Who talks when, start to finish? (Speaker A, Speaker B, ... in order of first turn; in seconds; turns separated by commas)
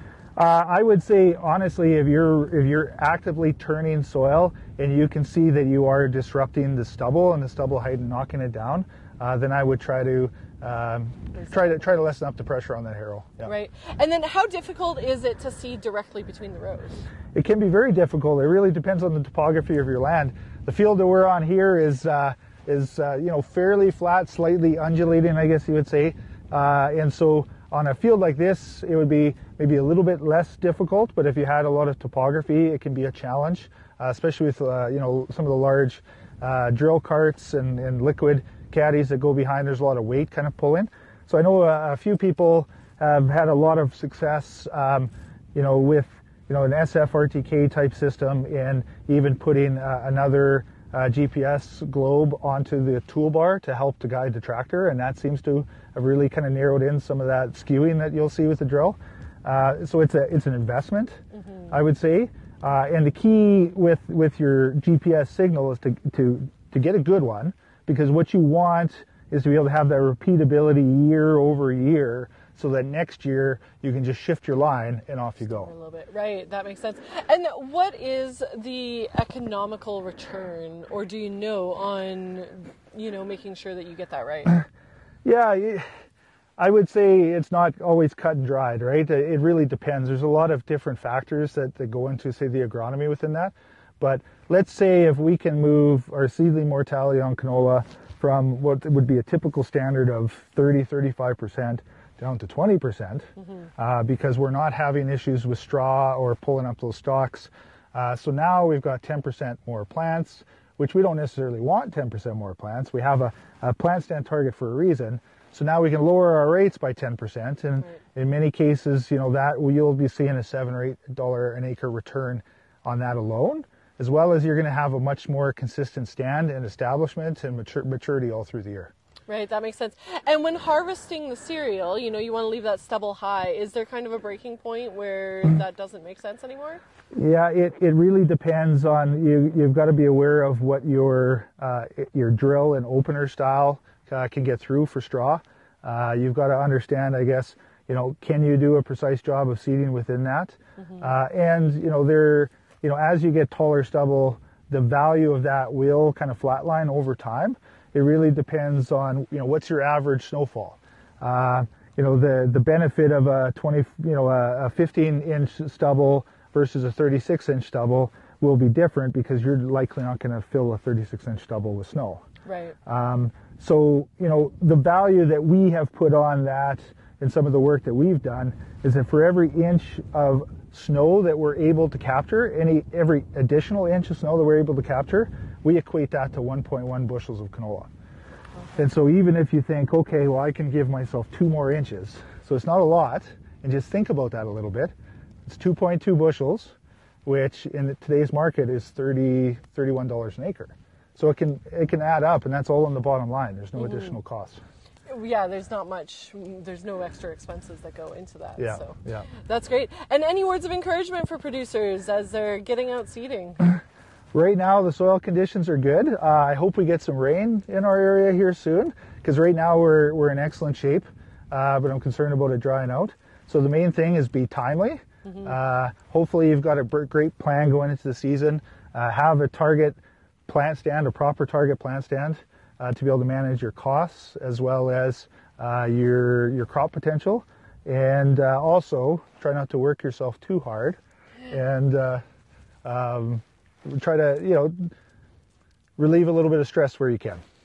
Speaker A: 0.3-13.5, Speaker B: 11.3-11.8, Speaker B: 13.4-17.1, Speaker A: 17.3-75.7, Speaker B: 61.3-61.7, Speaker B: 75.4-84.6, Speaker A: 85.2-85.8, Speaker A: 86.6-128.9, Speaker B: 103.4-103.7, Speaker B: 129.3-136.8, Speaker A: 137.1-172.2, Speaker B: 172.4-172.8, Speaker A: 172.8-187.9, Speaker B: 188.6-188.8, Speaker A: 188.8-194.9, Speaker A: 195.4-196.7, Speaker A: 197.2-204.6, Speaker B: 203.8-204.1, Speaker B: 205.1-213.8, Speaker A: 208.6-209.3, Speaker A: 214.3-241.0, Speaker A: 241.5-242.2, Speaker A: 242.8-244.9, Speaker A: 246.0-247.4